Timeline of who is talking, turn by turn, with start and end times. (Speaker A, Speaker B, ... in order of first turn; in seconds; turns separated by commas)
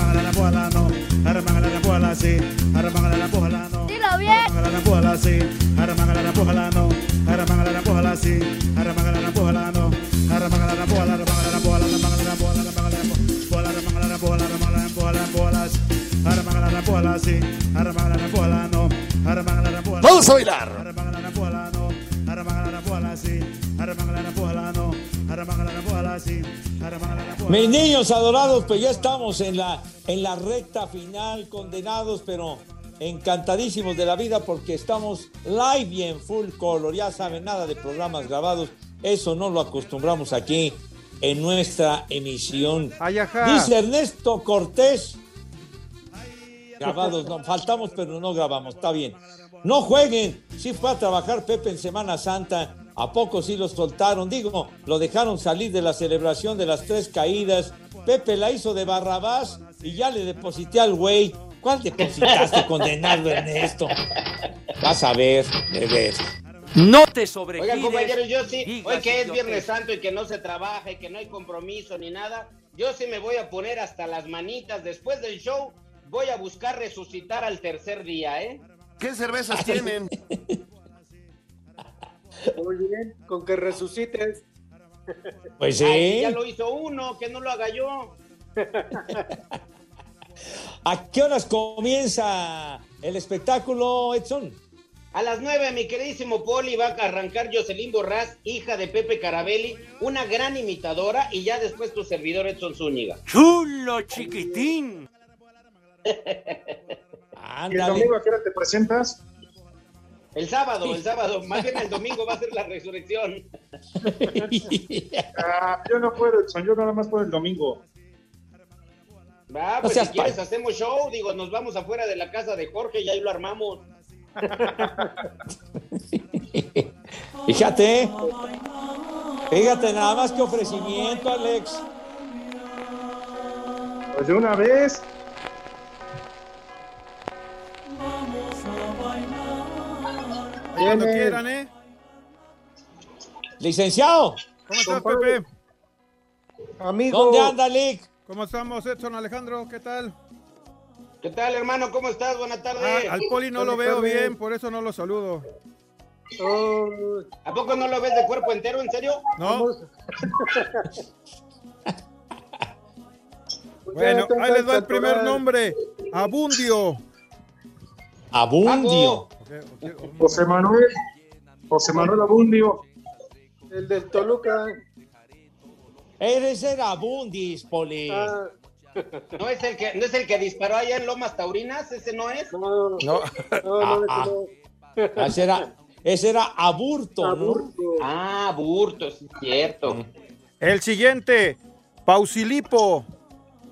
Speaker A: 0.2-0.8, Speaker A: 1.3-8.4, Speaker A: 8.9-9.8, Speaker A: 14.8-15.2, Speaker A: 16.6-17.1, Speaker B: 20.0-20.9, Speaker C: 27.5-45.2, Speaker D: 43.0-43.7, Speaker C: 46.8-63.9, Speaker C: 64.8-66.3, Speaker E: 66.8-69.7, Speaker F: 67.6-78.6, Speaker B: 79.0-80.1, Speaker G: 82.6-84.4, Speaker C: 85.6-86.4, Speaker F: 85.8-88.1, Speaker G: 88.6-89.2, Speaker C: 90.8-94.6, Speaker F: 95.1-103.2, Speaker E: 103.2-105.0, Speaker F: 106.1-106.7, Speaker C: 107.3-108.1, Speaker H: 107.7-109.2, Speaker F: 110.3-113.4, Speaker C: 114.0-115.3, Speaker H: 115.4-117.8, Speaker F: 119.5-123.8, Speaker C: 119.8-120.4, Speaker C: 126.1-126.8, Speaker C: 127.4-128.1, Speaker C: 129.5-131.8, Speaker H: 134.1-135.1, Speaker G: 140.8-141.4, Speaker D: 140.8-141.7, Speaker C: 143.6-144.4, Speaker D: 144.7-145.2, Speaker G: 144.8-145.4, Speaker G: 146.8-147.6, Speaker C: 147.1-148.1, Speaker D: 148.3-150.1, Speaker F: 151.2-153.2, Speaker D: 152.8-155.4, Speaker G: 153.5-154.4, Speaker G: 156.4-157.2, Speaker F: 157.4-159.2, Speaker G: 159.4-159.9, Speaker G: 160.4-160.9, Speaker G: 163.9-165.4, Speaker D: 163.9-167.0, Speaker C: 168.3-169.2, Speaker F: 168.6-169.2, Speaker D: 169.4-170.5, Speaker H: 170.2-170.9, Speaker H: 171.7-172.8, Speaker G: 173.7-174.7, Speaker C: 176.2-178.3, Speaker G: 178.1-178.5, Speaker F: 179.4-182.5, Speaker G: 182.5-183.1, Speaker G: 183.6-185.3, Speaker C: 183.8-184.3, Speaker C: 185.2-187.7, Speaker G: 187.2-188.1, Speaker F: 188.0-190.0, Speaker D: 190.6-193.0